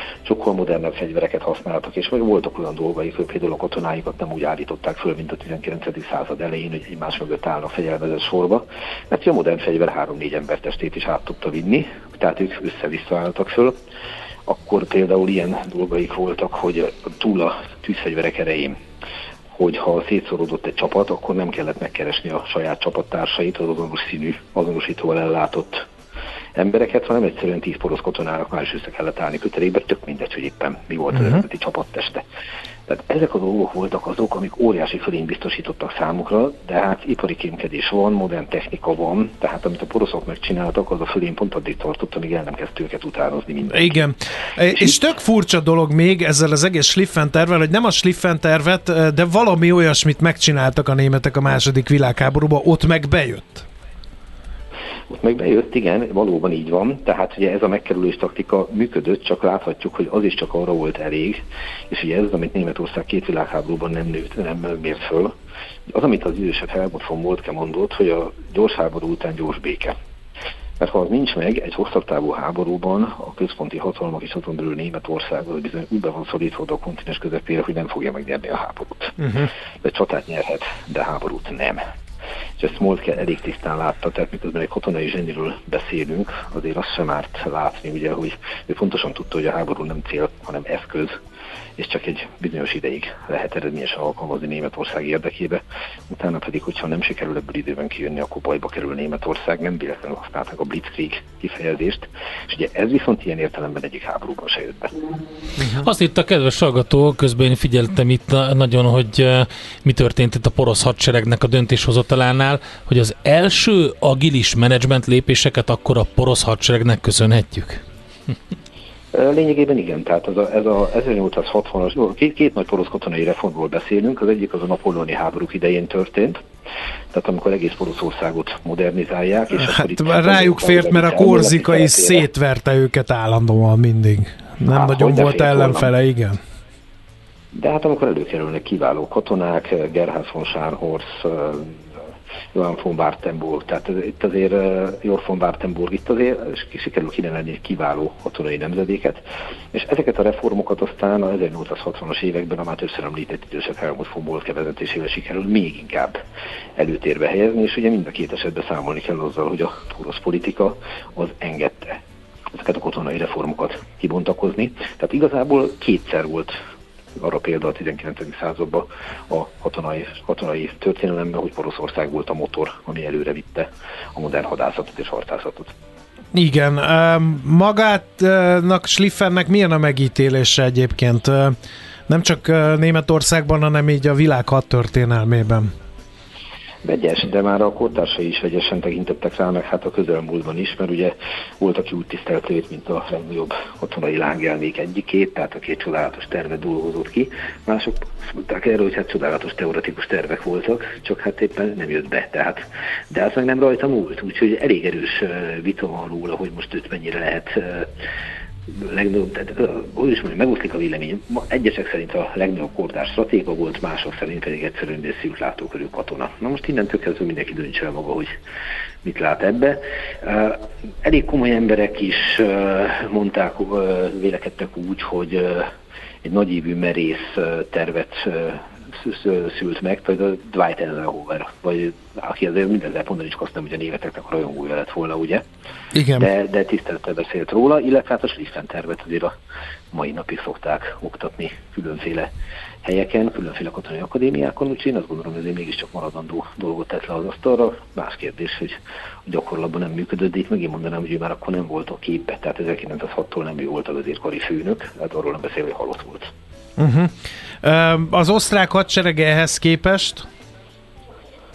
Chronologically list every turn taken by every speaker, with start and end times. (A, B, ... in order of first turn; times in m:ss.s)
0:00.2-0:13.8 A
0:14.5-0:18.8 A
0:19.5-0:25.8 A
0:26.6-0:32.2 A
0:32.9-0:44.0 A
0:43.7-0:53.6 B
0:55.1-1:05.3 A
1:05.9-1:09.9 A
1:10.8-1:21.8 A
1:19.2-1:19.5 B
1:22.6-1:31.2 A
1:31.8-1:45.0 A
1:45.6-1:45.9 B
1:45.8-1:57.8 C
1:59.1-2:06.4 A
2:07.1-2:12.3 A
2:09.6-2:16.4 B
2:14.7-2:15.9 A
2:17.5-2:21.8 A
2:22.5-2:29.2 A
2:29.7-2:36.2 A
2:36.8-2:42.0 A
2:42.5-2:46.6 A
2:47.2-2:55.7 A
2:56.3-3:01.6 B
3:02.1-3:05.7 B
3:06.8-3:27.9 A
3:28.7-3:38.3 A
3:39.0-3:45.7 A
3:46.2-3:55.4 A
3:55.9-3:56.3 B
3:56.2-3:59.3 A
3:59.9-4:02.3 A
4:02.8-4:16.3 A
4:16.8-4:20.3 B